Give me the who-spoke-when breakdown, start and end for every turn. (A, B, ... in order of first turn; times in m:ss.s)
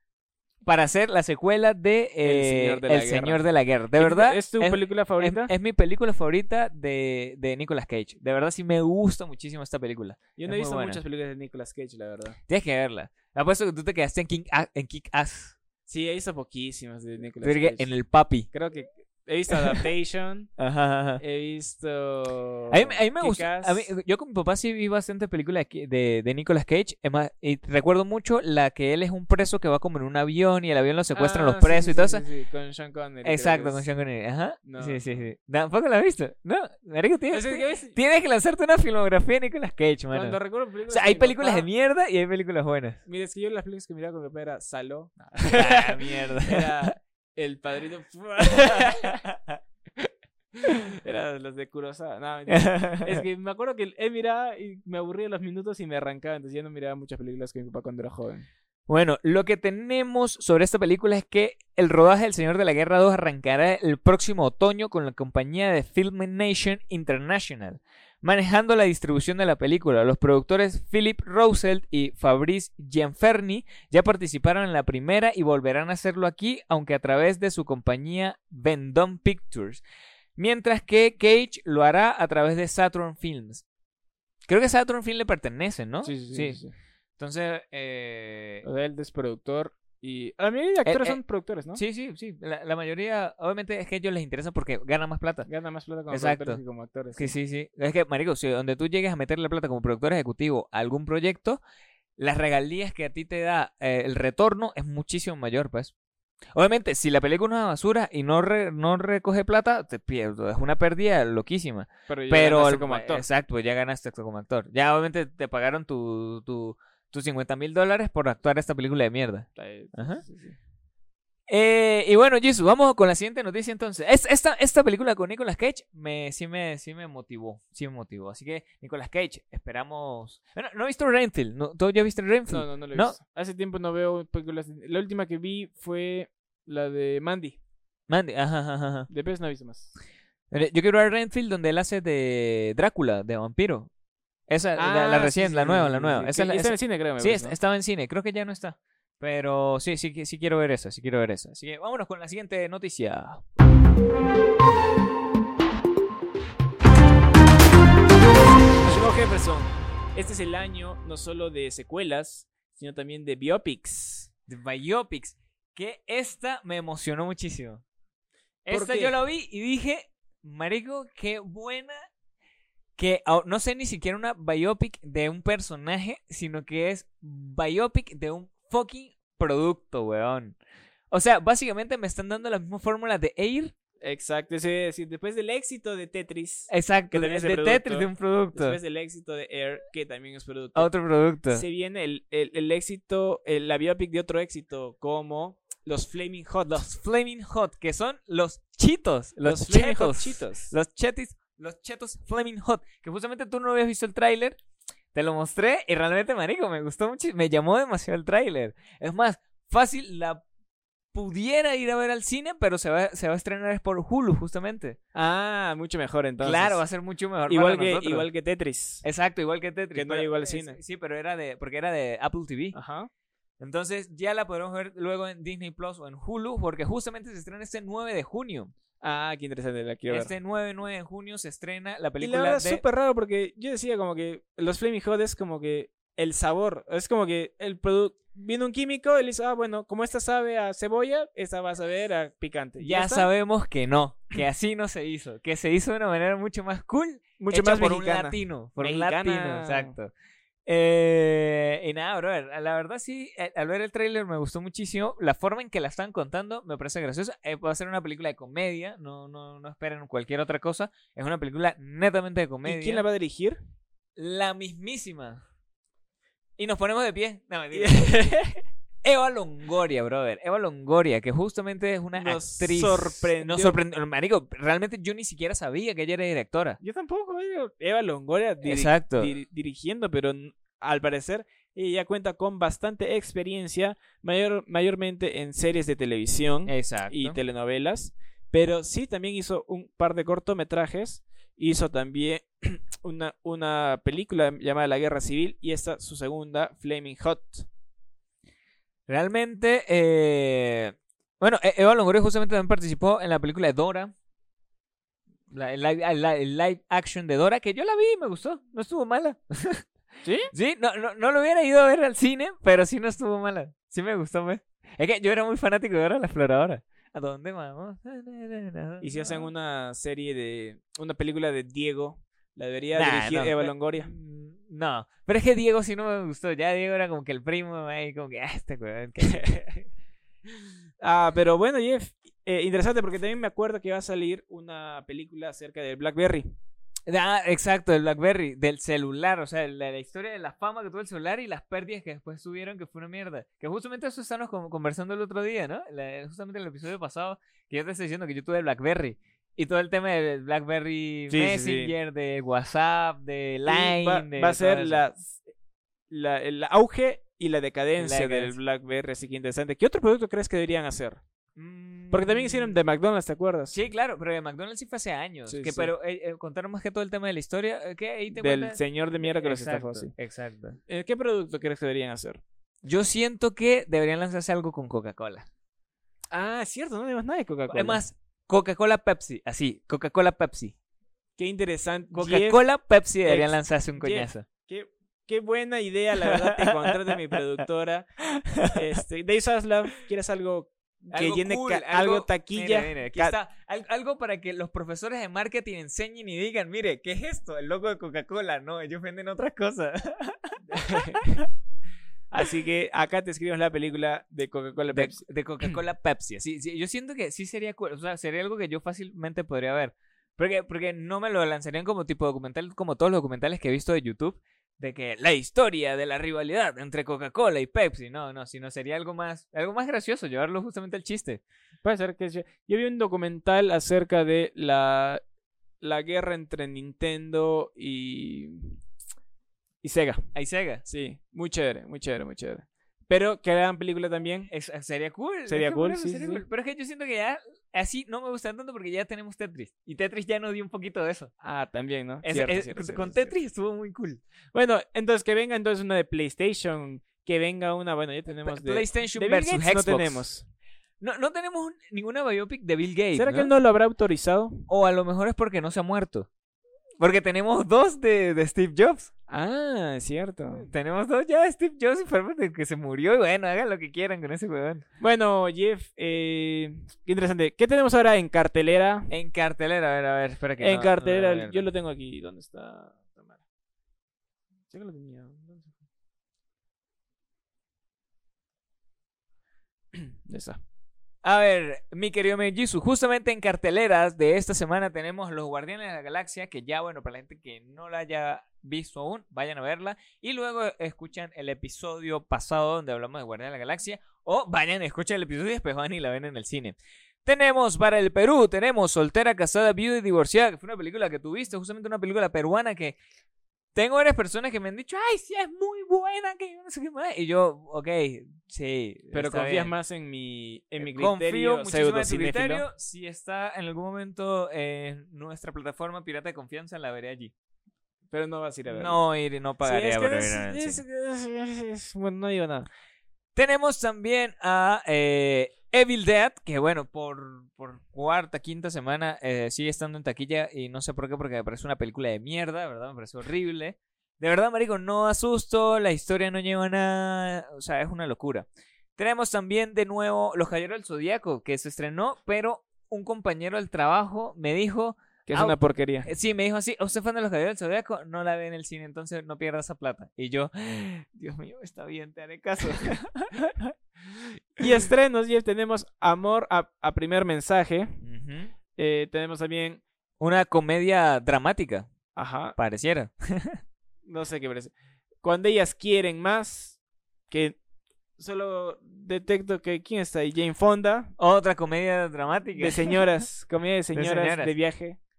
0:00.6-0:11.0 A
0:02.2-0:05.5 B
0:10.4-0:12.4 B
0:12.5-0:15.6 A
0:15.9-0:17.9 B
0:17.4-0:18.5 A
0:18.5-0:20.5 B
0:19.5-0:19.8 A
0:20.6-0:21.2 A
0:21.2-0:23.8 B
0:22.7-0:32.2 A
0:31.1-0:33.8 B
0:33.2-0:43.0 A
0:34.6-0:35.2 B
0:37.3-0:38.0 B
0:40.1-0:41.7 B
0:43.1-0:49.2 B
0:45.5-0:46.9 A
0:48.7-0:49.6 A
0:50.0-0:58.5 B
0:52.5-0:53.2 A
0:58.9-1:19.8 A
1:20.4-1:23.6 A
1:24.5-1:26.6 A
1:26.0-1:26.7 B
1:27.2-1:28.7 A
1:28.6-1:31.8 B
1:30.9-1:31.2 A
1:31.7-1:35.5 A
1:35.5-1:37.3 B
1:36.1-1:36.6 A
1:37.2-1:41.6 A
1:42.2-1:45.9 A
1:46.6-2:00.2 A
1:52.1-1:53.3 B
1:59.6-2:00.6 B
2:01.5-2:13.2 A
2:12.5-2:17.6 B
2:18.1-2:19.1 A
2:19.1-2:19.9 B
2:20.5-2:23.9 A
2:24.5-2:33.5 A
2:24.8-2:27.6 B
2:38.8-2:44.3 B
2:44.5-2:47.8 A
2:48.6-2:52.1 A
2:48.7-2:49.2 B
2:53.0-3:00.6 A
3:01.1-3:03.8 A
3:04.0-3:10.9 B
3:06.7-3:08.8 A
3:10.8-3:11.6 A
3:11.5-3:16.9 B
3:16.7-3:24.6 A
3:19.4-3:20.7 B
3:25.1-3:30.4 A
3:31.1-3:35.0 A
3:35.1-3:36.8 B
3:36.4-3:38.3 A
3:37.5-3:39.0 B
3:39.0-3:42.8 A
3:39.9-3:40.8 B
3:42.7-3:43.1 B
3:43.6-3:48.7 A
3:49.0-3:50.3 B
3:50.1-3:52.8 A
3:52.2-4:03.3 B
4:02.8-4:10.1 A
4:07.4-4:10.0 B
4:10.7-4:23.0 A
4:22.6-4:23.6 B
4:24.2-4:25.4 A
4:26.6-4:28.3 A
4:27.7-4:28.6 B
4:29.0-4:36.8 A
4:32.2-4:33.8 B
4:36.8-4:57.7 B
4:38.6-4:39.3 A
4:46.7-4:47.4 A
4:59.1-5:04.1 A
5:05.5-5:09.9 A
5:10.2-5:10.5 B
5:10.5-5:19.5 A
5:19.0-5:24.1 B
5:22.9-5:29.8 A
5:29.3-5:29.6 B
5:31.0-5:36.5 B
5:37.1-5:55.0 A
5:51.3-5:51.9 B
5:53.7-5:55.4 B
5:56.1-6:01.2 B
5:58.0-5:58.6 A
6:01.6-6:02.8 A
6:02.1-6:03.8 B
6:03.7-6:10.8 A
6:05.5-6:05.9 B
6:08.4-6:10.1 B
6:10.9-6:12.4 B
6:12.8-6:15.5 A
6:16.3-6:18.0 B
6:17.7-6:20.8 A
6:21.4-6:22.6 B
6:22.1-6:24.5 A
6:23.2-6:28.1 B
6:26.2-6:27.1 A
6:28.4-6:28.8 A
6:28.7-6:33.4 B
6:31.1-6:41.5 A
6:40.7-6:41.4 B
6:42.3-6:45.2 B
6:44.9-7:01.4 A
7:01.8-7:05.2 B
7:05.8-7:08.8 B
7:09.8-7:10.3 B
7:10.3-7:10.8 A
7:10.8-7:14.5 B
7:14.5-7:21.3 A
7:15.5-7:16.4 B
7:21.4-7:23.4 B
7:22.2-7:24.2 A
7:24.5-7:30.5 B
7:28.4-7:30.3 A
7:31.0-7:33.5 A
7:33.2-7:34.6 B
7:34.7-7:36.3 A
7:37.0-7:39.1 A
7:39.3-7:40.7 B
7:40.6-7:44.8 A
7:45.0-7:49.1 B
7:49.1-7:51.7 A
7:50.6-7:53.4 B
7:54.7-7:55.7 B
7:59.9-8:00.6 B
8:01.2-8:23.0 A
8:23.8-8:29.7 A
8:29.1-8:32.7 B
8:30.8-8:37.3 A
8:38.1-8:39.0 B
8:38.7-8:40.8 A
8:39.6-8:42.7 B
8:43.4-9:13.7 A
9:05.3-9:06.1 B
9:14.6-9:18.0 B
9:18.0-9:18.5 A
9:18.8-9:19.8 B
9:20.2-9:21.9 A
9:22.2-9:22.6 B
9:22.6-9:23.6 A
9:24.1-9:26.8 B
9:27.3-9:27.6 B
9:28.2-9:31.1 B
9:31.2-9:33.0 A
9:32.6-9:35.0 B
9:33.9-9:34.6 A